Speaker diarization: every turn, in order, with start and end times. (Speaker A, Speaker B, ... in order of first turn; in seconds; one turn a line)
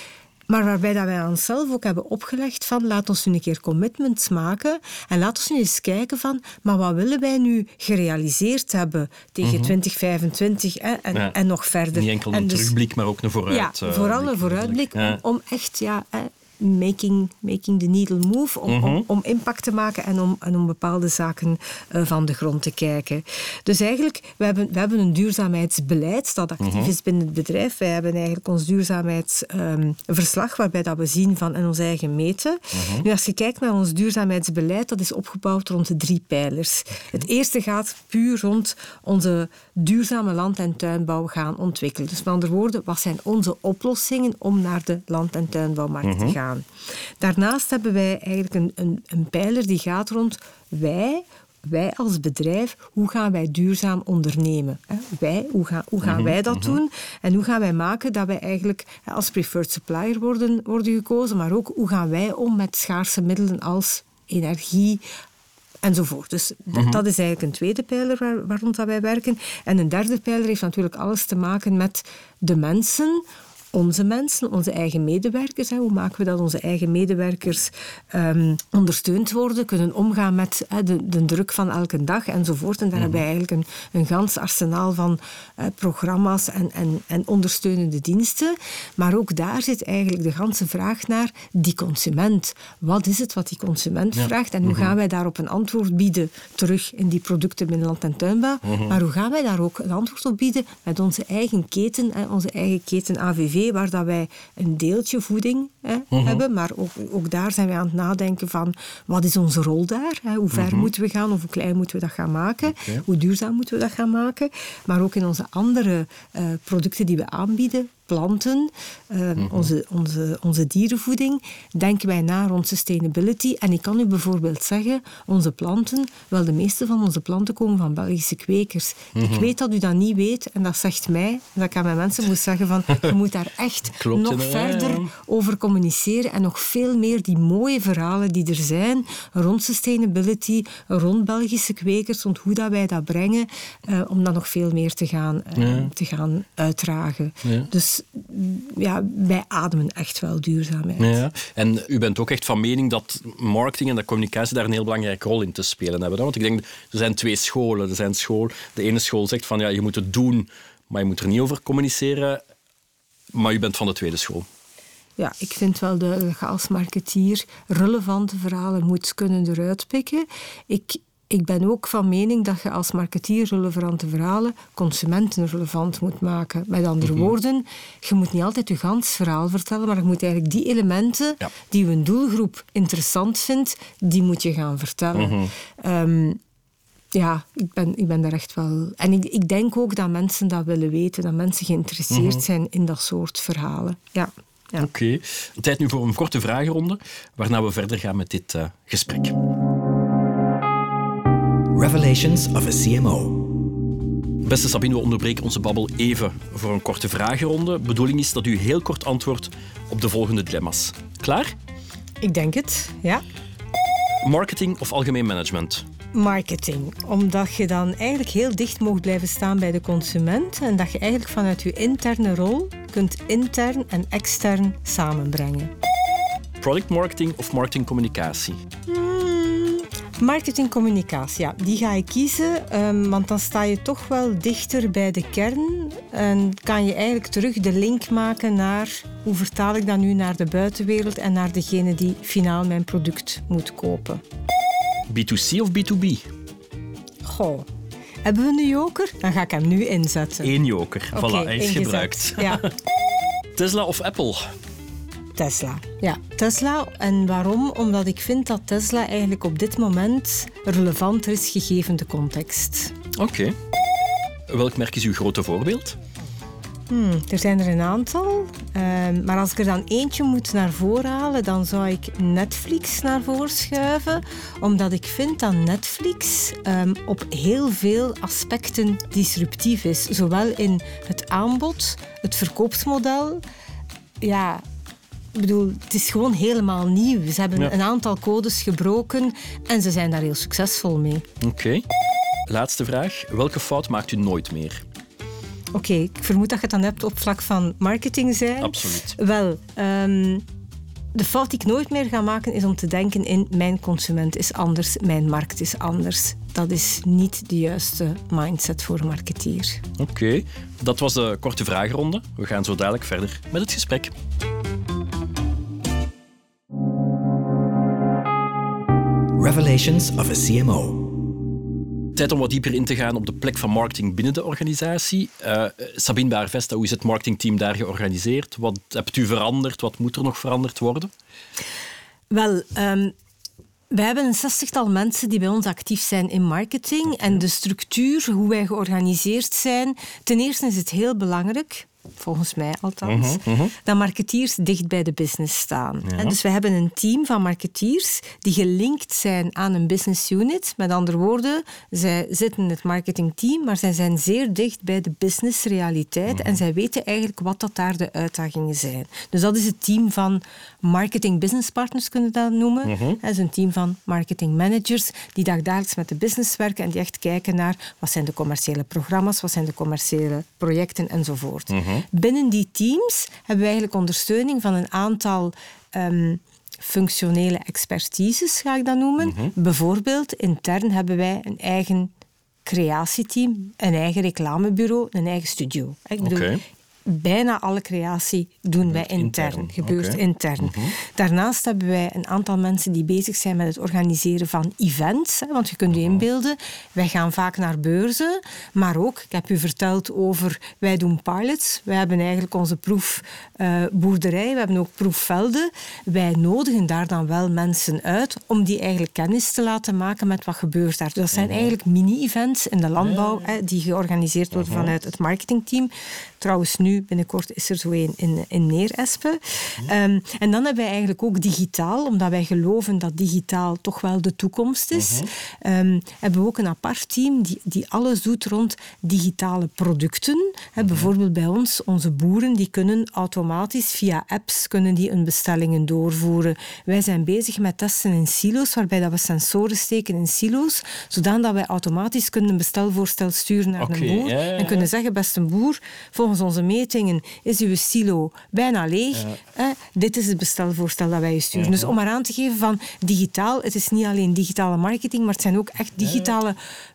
Speaker A: 0.5-12.7
Speaker B: 9.4-9.7
Speaker B: 11.9-15.2
Speaker A: 13.5-46.6
Speaker B: 18.7-19.0
Speaker B: 26.6-26.9
Speaker B: 32.7-33.0
Speaker B: 46.0-46.4
Speaker A: 47.2-65.0
Speaker B: 56.0-56.8
Speaker A: 65.8-151.2
Speaker B: 66.7-67.0
Speaker B: 83.0-83.2
Speaker B: 94.1-94.9
Speaker B: 98.6-99.0
Speaker B: 106.1-106.4
Speaker B: 110.5-110.9
Speaker B: 112.7-113.0
Speaker B: 119.4-119.7
Speaker B: 129.2-129.5
Speaker B: 134.0-135.1
Speaker B: 145.6-145.9
Speaker B: 151.0-162.4
Speaker B: 163.3-164.4
Speaker A: 165.2-186.4
Speaker B: 185.1-185.5
Speaker A: 187.1-194.9
Speaker B: 192.1-192.4
Speaker B: 194.8-199.3
Speaker C: 201.7-203.6
Speaker B: 204.4-211.5
Speaker A: 212.2-213.2
Speaker B: 214.2-215.8
Speaker A: 216.1-225.7
Speaker B: 226.6-228.6
Speaker A: 228.9-244.2
Speaker B: 245.1-246.2
Speaker A: 247.2-247.7
Speaker A: 248.2-250.5
Speaker B: 250.4-252.7
Speaker A: 251.1-252.7
Speaker B: 253.6-254.5
Speaker A: 255.4-262.9
Speaker B: 263.1-263.5
Speaker B: 264.5-265.9
Speaker A: 266.9-283.4
Speaker A: 284.2-284.6
Speaker A: 285.3-291.2
Speaker B: 291.4-291.8
Speaker B: 292.5-294.8
Speaker A: 295.7-300.4
Speaker B: 298.6-299.1
Speaker A: 301.1-309.8
Speaker B: 310.0-314.1
Speaker C: 319.4-321.2
Speaker B: 322.1-331.1
Speaker A: 332.3-333.1
Speaker A: 333.9-382.1
Speaker B: 343.0-343.7
Speaker B: 346.1-346.4
Speaker B: 356.3-356.6
Speaker B: 362.8-363.2
Speaker B: 371.7-372.0
Speaker B: 379.2-379.5
Speaker A: 382.6-386.5
Speaker B: 386.2-386.6
Speaker A: 387.1-456.6
Speaker B: 388.8-390.9
Speaker B: 411.3-411.7
Speaker B: 413.0-413.5
Speaker B: 414.5-414.9
Speaker B: 424.9-425.3
Speaker B: 430.8-431.1
Speaker B: 443.8-444.9
Speaker B: 451.5-451.9
Speaker B: 456.0-456.3